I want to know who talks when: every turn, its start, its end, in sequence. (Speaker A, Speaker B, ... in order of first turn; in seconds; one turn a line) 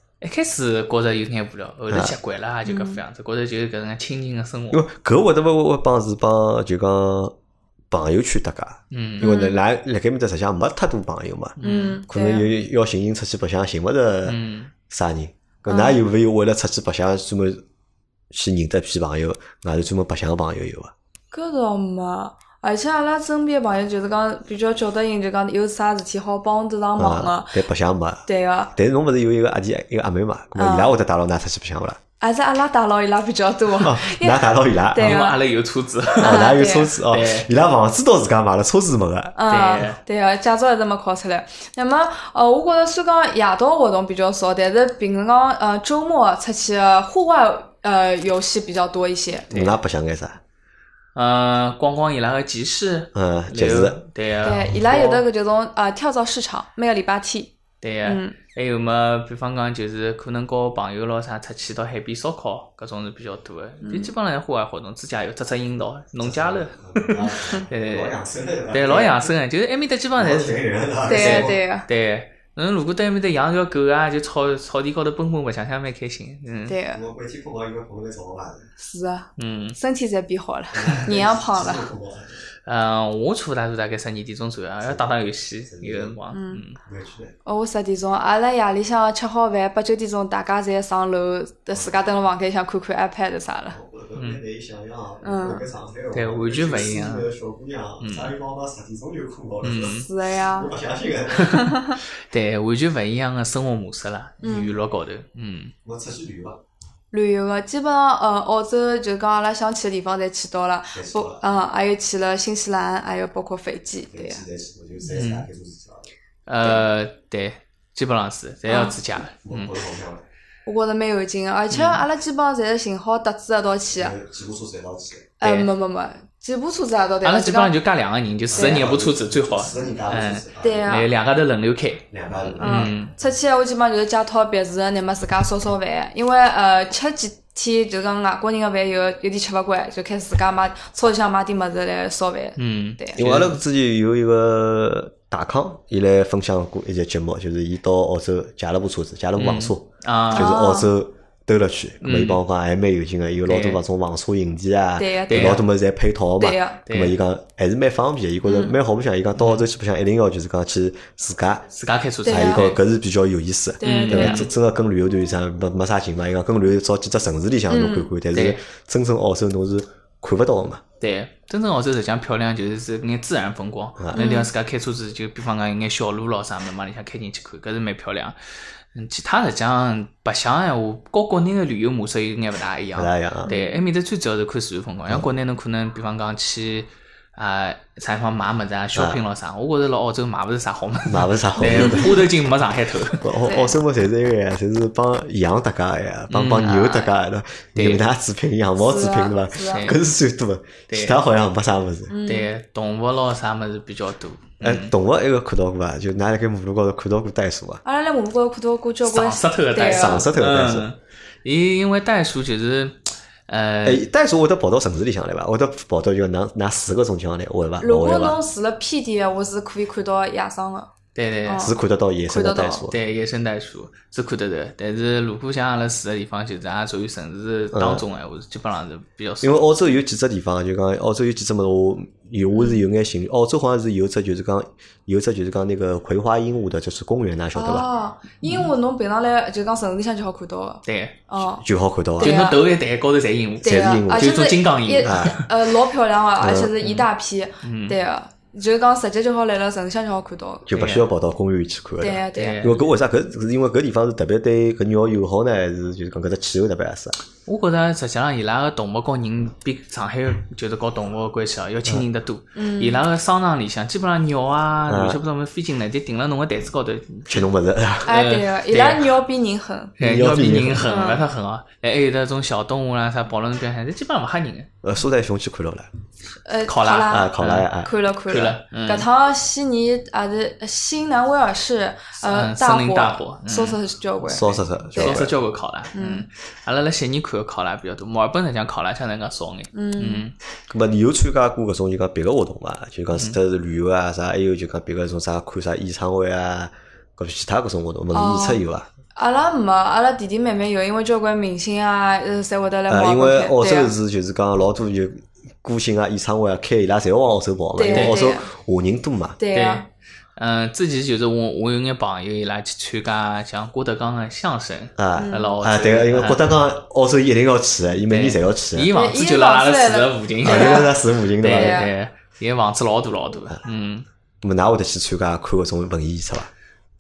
Speaker A: 0.2-4.8
Speaker B: 2.6-3.0
Speaker C: 4.7-7.3
Speaker C: 7.9-11.6
Speaker A: 8.9-9.3
Speaker B: 9.2-9.6
Speaker A: 11.6-12.0
Speaker B: 11.6-12.5
Speaker C: 12.1-17.6
Speaker A: 14.2-14.7
Speaker B: 15.7-16.0
Speaker C: 18.3-20.9
Speaker B: 21.3-27.6
Speaker C: 27.0-32.0
Speaker B: 28.2-28.7
Speaker B: 30.6-30.9
Speaker B: 32.2-35.4
Speaker C: 33.8-35.2
Speaker A: 35.0-36.4
Speaker B: 36.2-36.9
Speaker C: 36.2-39.4
Speaker A: 37.1-37.5
Speaker B: 39.4-49.6
Speaker A: 39.5-40.0
Speaker C: 49.5-50.4
Speaker A: 51.1-55.2
Speaker C: 53.1-54.0
Speaker B: 54.4-58.4
Speaker A: 57.8-68.2
Speaker B: 63.8-64.1
Speaker C: 66.2-69.3
Speaker B: 67.2-67.6
Speaker A: 68.7-76.8
Speaker C: 70.2-71.6
Speaker B: 71.1-71.9
Speaker B: 76.7-77.0
Speaker C: 76.9-78.7
Speaker B: 78.8-81.9
Speaker A: 79.4-79.8
Speaker C: 80.7-82.4
Speaker A: 82.7-86.8
Speaker C: 84.8-85.1
Speaker C: 85.7-86.2
Speaker B: 86.3-86.6
Speaker C: 86.8-87.3
Speaker B: 87.4-93.8
Speaker C: 93.7-101.7
Speaker A: 94.2-94.4
Speaker B: 95.2-95.7
Speaker A: 96.1-97.3
Speaker A: 98.0-98.3
Speaker A: 99.6-100.1
Speaker B: 99.8-100.7
Speaker A: 101.3-105.7
Speaker B: 101.5-102.0
Speaker B: 104.4-104.7
Speaker C: 105.8-106.6
Speaker B: 107.1-114.4
Speaker C: 110.9-111.4
Speaker C: 114.1-116.0
Speaker A: 115.1-115.5
Speaker A: 116.5-119.7
Speaker B: 118.7-119.0
Speaker C: 119.4-120.2
Speaker B: 120.7-124.2
Speaker A: 121.7-122.0
Speaker C: 123.9-125.3
Speaker B: 125.4-127.7
Speaker A: 125.4-125.7
Speaker A: 127.2-133.1
Speaker C: 128.5-131.0
Speaker B: 128.5-128.9
Speaker B: 130.6-131.1
Speaker C: 132.1-132.9
Speaker B: 132.6-143.2
Speaker A: 142.6-143.6
Speaker C: 143.2-161.7
Speaker A: 149.4-150.5
Speaker B: 150.3-150.9
Speaker A: 152.0-152.4
Speaker A: 153.5-153.8
Speaker B: 155.0-155.6
Speaker A: 155.3-155.6
Speaker B: 156.4-156.8
Speaker A: 156.8-157.2
Speaker B: 158.4-158.7
Speaker A: 159.3-159.6
Speaker A: 161.7-162.8
Speaker B: 162.2-162.7
Speaker C: 162.2-170.8
Speaker B: 163.8-164.5
Speaker A: 163.8-164.5
Speaker B: 167.7-168.1
Speaker A: 168.3-168.6
Speaker A: 171.0-178.4
Speaker C: 174.0-174.3
Speaker B: 174.1-174.5
Speaker A: 178.9-193.2
Speaker C: 182.9-183.5
Speaker B: 183.4-183.8
Speaker C: 188.9-189.2
Speaker C: 191.1-192.3
Speaker C: 193.2-202.1
Speaker B: 193.4-193.8
Speaker A: 196.3-197.1
Speaker A: 197.8-198.0
Speaker B: 198.8-199.9
Speaker A: 199.7-200.0
Speaker A: 200.9-201.2
Speaker B: 202.1-202.5
Speaker A: 202.2-204.9
Speaker C: 204.6-207.8
Speaker B: 207.8-210.3
Speaker A: 209.0-214.0
Speaker C: 209.8-210.9
Speaker C: 213.8-218.4
Speaker B: 217.8-220.9
Speaker A: 221.1-221.7
Speaker B: 221.4-221.7
Speaker C: 221.6-223.0
Speaker B: 222.3-222.9
Speaker A: 222.9-229.6
Speaker C: 227.7-228.0
Speaker C: 229.4-237.9
Speaker B: 232.5-232.8
Speaker B: 237.5-241.6
Speaker A: 240.8-241.2
Speaker C: 241.6-242.4
Speaker B: 242.2-242.6
Speaker A: 242.2-245.5
Speaker B: 243.6-250.7
Speaker C: 243.6-244.4
Speaker C: 245.0-245.4
Speaker C: 246.4-246.7
Speaker A: 247.6-247.9
Speaker C: 250.7-257.1
Speaker A: 250.7-251.1
Speaker B: 252.0-252.6
Speaker A: 252.3-252.8
Speaker A: 257.4-267.5
Speaker B: 262.6-263.0
Speaker C: 264.9-265.2
Speaker C: 267.3-268.2
Speaker A: 268.0-269.1
Speaker B: 268.1-269.9
Speaker A: 270.0-274.7
Speaker C: 270.0-270.9
Speaker B: 270.8-271.2
Speaker C: 274.8-275.9
Speaker B: 276.4-285.3
Speaker A: 276.7-277.7
Speaker C: 277.1-277.9
Speaker A: 278.3-279.1
Speaker A: 282.2-283.8
Speaker C: 284.2-285.3
Speaker A: 284.9-290.3
Speaker B: 285.9-286.3
Speaker B: 289.7-290.2
Speaker C: 290.7-298.9
Speaker B: 298.1-298.6
Speaker B: 299.1-303.9
Speaker C: 302.9-309.4
Speaker B: 307.7-308.5
Speaker A: 307.9-308.2
Speaker B: 309.4-309.8
Speaker A: 309.5-316.4
Speaker C: 315.0-318.9
Speaker B: 315.2-315.6
Speaker A: 318.1-324.1
Speaker B: 318.9-320.9
Speaker C: 320.4-321.9
Speaker B: 321.5-321.9
Speaker C: 324.4-326.5